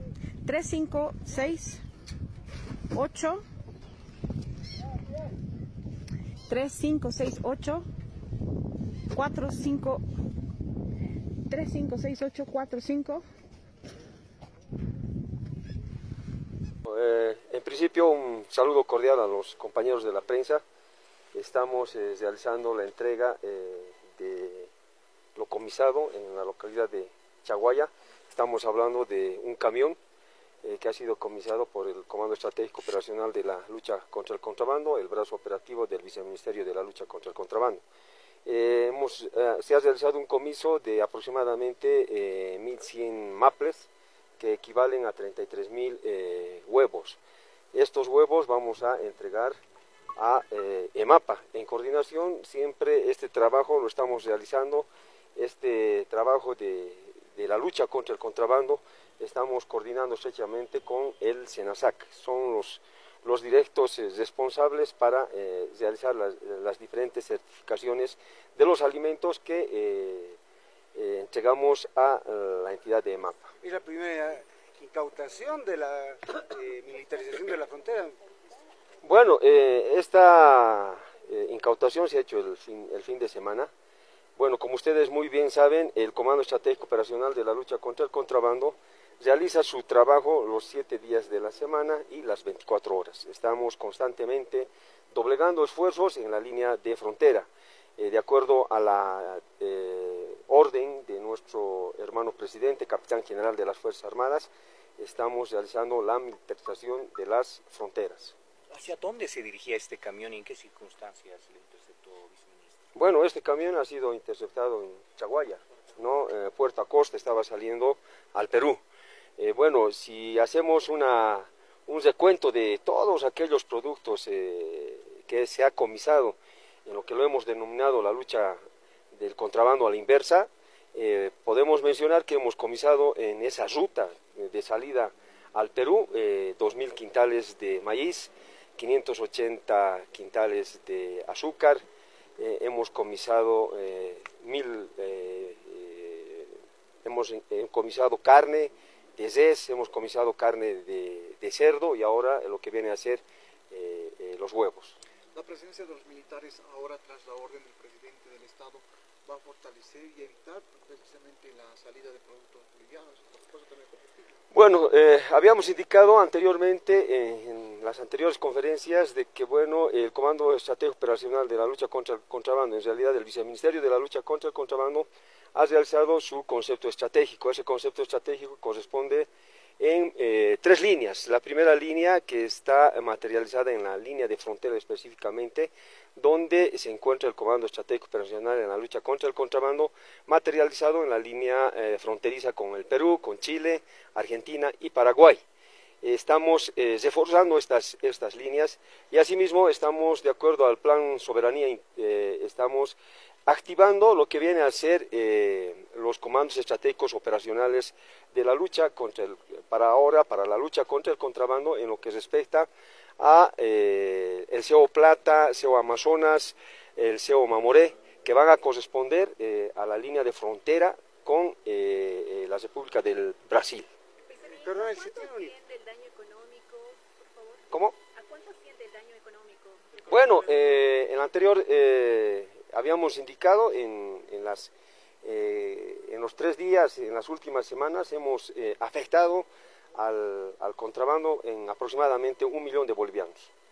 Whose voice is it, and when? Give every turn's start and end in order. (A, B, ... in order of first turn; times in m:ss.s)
0:00.4-0:01.8 A
0:02.9-0:03.4 A
0:06.5-0:07.8 A
0:09.1-0:10.0 A
0:11.5-0:13.2 A
0:16.8-0:20.6 B
0:21.3-0:24.7 B
0:25.3-0:30.0 B
0:30.6-0:37.8 B
0:38.4-0:47.2 B
0:47.7-0:49.6 B
0:50.1-1:10.4 B
1:10.9-1:13.5 B
1:13.6-1:18.2 C
1:19.0-1:23.7 B
1:24.4-1:48.3 B
1:48.7-1:52.8 D
1:52.9-1:58.8 B
1:59.4-2:08.6 B
2:09.1-2:21.8 B
2:22.4-2:35.0 B
2:35.3-2:44.2 E
2:44.5-3:15.4 B
3:16.0-3:43.9 B
3:44.3-3:50.1 F
3:44.4-3:45.5 C
3:47.7-3:48.0 B
3:50.1-4:03.5 B